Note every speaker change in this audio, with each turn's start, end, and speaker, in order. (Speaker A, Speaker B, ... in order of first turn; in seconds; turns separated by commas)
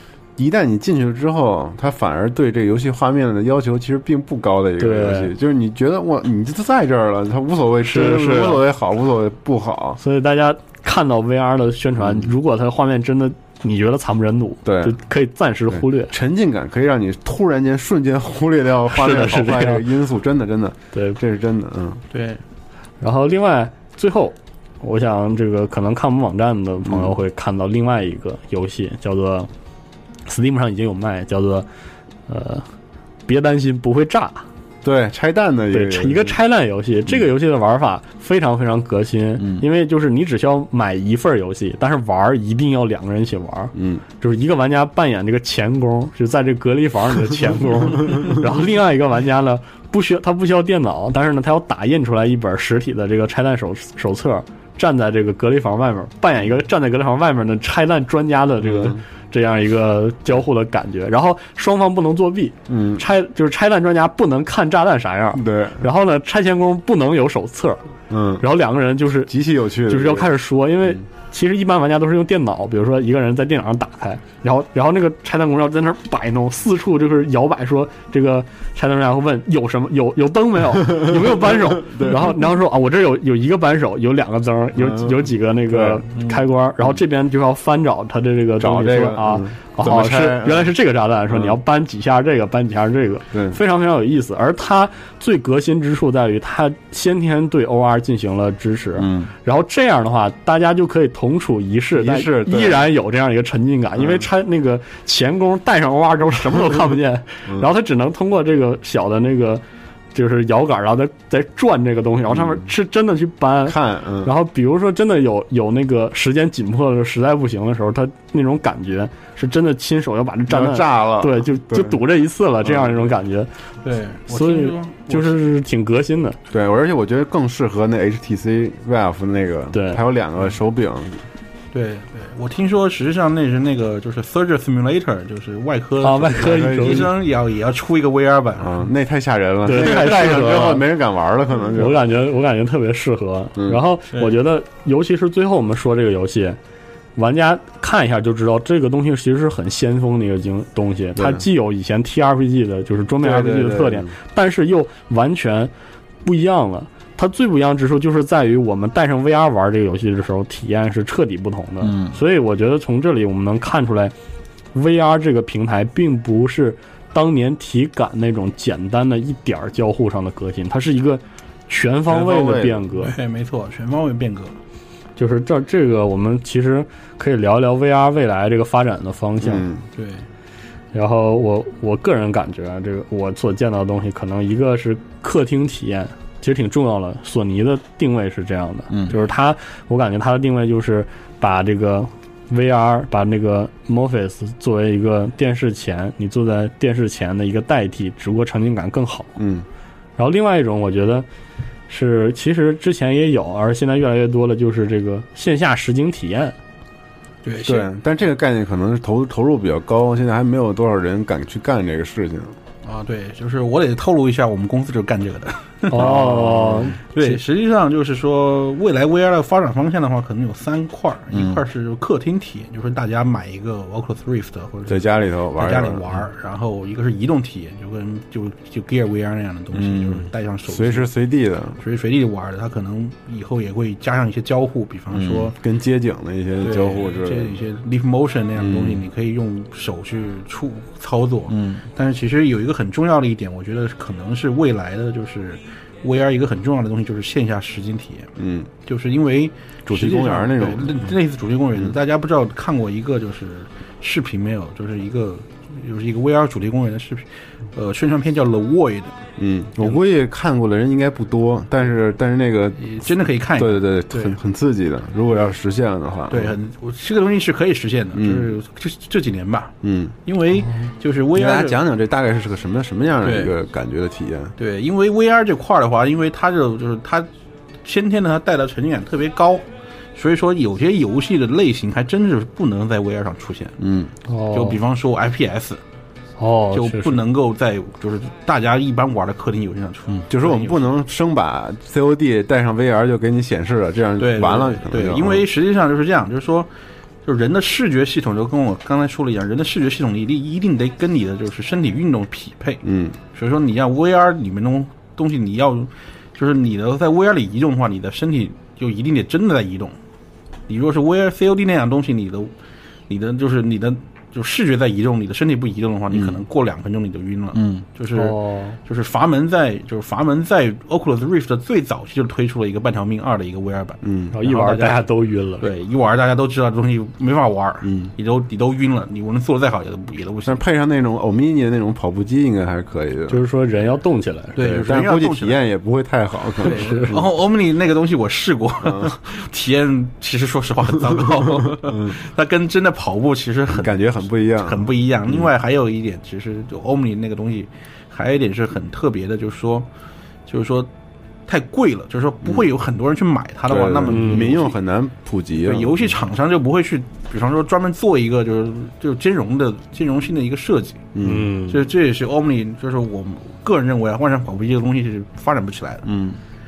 Speaker A: 0.4-10.0, Speaker B: 4.8-5.3, Speaker B: 7.8-8.6, Speaker B: 10.0-16.1, Speaker A: 12.0-12.3, Speaker A: 14.6-15.0, Speaker A: 15.7-22.0, Speaker B: 18.9-19.8, Speaker C: 22.1-22.4, Speaker B: 23.0-29.5, Speaker A: 26.8-27.1, Speaker B: 30.3-31.7, Speaker B: 32.3-32.6, Speaker B: 33.3-34.4, Speaker A: 34.8-36.4, Speaker B: 35.7-67.8, Speaker A: 39.4-39.6, Speaker A: 43.7-44.0, Speaker A: 58.6-59.0, Speaker A: 62.7-63.0, Speaker A: 65.3-65.8, Speaker A: 68.1-68.4, Speaker B: 68.4-69.3, Speaker A: 69.3-70.3, Speaker B: 69.8-109.6, Speaker A: 80.8-82.5, Speaker A: 84.8-86.2, Speaker A: 88.6-90.7, Speaker A: 91.3-91.6, Speaker A: 93.3-93.6, Speaker A: 99.0-99.3, Speaker A: 101.9-102.9, Speaker A: 104.0-104.2, Speaker B: 110.1-123.5, Speaker A: 112.3-112.6, Speaker A: 113.6-114.3, Speaker A: 120.5-122.0, Speaker A: 122.6-123.0, Speaker C: 123.8-125.4, Speaker B: 124.3-126.4, Speaker A: 126.5-131.2, Speaker B: 129.7-130.0, Speaker C: 131.7-138.8, Speaker B: 136.0-137.1, Speaker A: 136.3-137.1, Speaker A: 138.6-142.0, Speaker B: 139.6-140.8, Speaker C: 139.8-140.2, Speaker B: 141.8-146.6, Speaker A: 143.6-143.8, Speaker C: 144.1-144.4, Speaker B: 147.2-155.7, Speaker A: 151.2-151.4, Speaker A: 153.2-154.1, Speaker B: 156.2-164.1, Speaker A: 161.8-162.2, Speaker B: 164.7-173.1, Speaker A: 172.1-172.8, Speaker C: 173.0-174.5, Speaker B: 175.2-179.7, Speaker A: 179.4-179.8, Speaker C: 179.9-180.2, Speaker B: 180.9-199.3, Speaker A: 188.9-189.1, Speaker A: 199.4-199.7, Speaker B: 200.2-201.2, Speaker B: 201.9-206.6, Speaker C: 207.4-207.9, Speaker A: 207.6-212.5, Speaker C: 212.8-216.1, Speaker B: 215.9-217.4, Speaker A: 215.9-217.0, Speaker C: 217.1-231.1, Speaker A: 221.3-221.6, Speaker A: 224.9-226.2, Speaker A: 229.7-231.8, Speaker C: 231.8-235.5, Speaker A: 235.1-237.6, Speaker C: 236.6-248.3, Speaker A: 238.6-239.0, Speaker A: 241.5-241.8, Speaker A: 248.4-248.7, Speaker C: 248.8-259.2, Speaker A: 249.8-251.1, Speaker A: 259.4-262.9, Speaker C: 262.8-264.4, Speaker A: 263.5-266.5, Speaker C: 266.3-271.8, Speaker A: 268.1-268.5, Speaker A: 269.8-270.1, Speaker A: 271.3-274.5, Speaker C: 273.2-273.5, Speaker C: 274.6-277.3, Speaker C: 277.8-283.8, Speaker A: 283.8-284.1, Speaker B: 284.3-284.8, Speaker C: 284.5-285.8, Speaker B: 286.4-287.2, Speaker C: 286.7-291.0, Speaker A: 290.2-295.4, Speaker C: 294.2-296.7, Speaker C: 297.2-309.9, Speaker A: 302.8-303.2, Speaker C: 310.7-312.5, Speaker C: 313.1-325.0, Speaker A: 316.1-316.4, Speaker A: 317.5-317.8, Speaker B: 318.1-318.8, Speaker A: 324.0-324.4, Speaker B: 324.3-325.7, Speaker C: 325.6-330.6, Speaker A: 327.8-328.1, Speaker A: 330.4-333.4, Speaker B: 333.3-334.6, Speaker C: 334.6-335.6, Speaker A: 334.6-337.2, Speaker C: 336.6-349.9, Speaker B: 336.6-337.1, Speaker A: 338.8-339.1, Speaker A: 341.6-342.1, Speaker A: 343.7-345.5, Speaker C: 350.5-350.9, Speaker C: 351.5-354.8, Speaker A: 353.7-356.1, Speaker B: 354.1-354.5, Speaker C: 355.6-361.1, Speaker A: 361.1-361.5, Speaker B: 361.2-361.8, Speaker C: 361.7-366.1, Speaker A: 366.0-366.4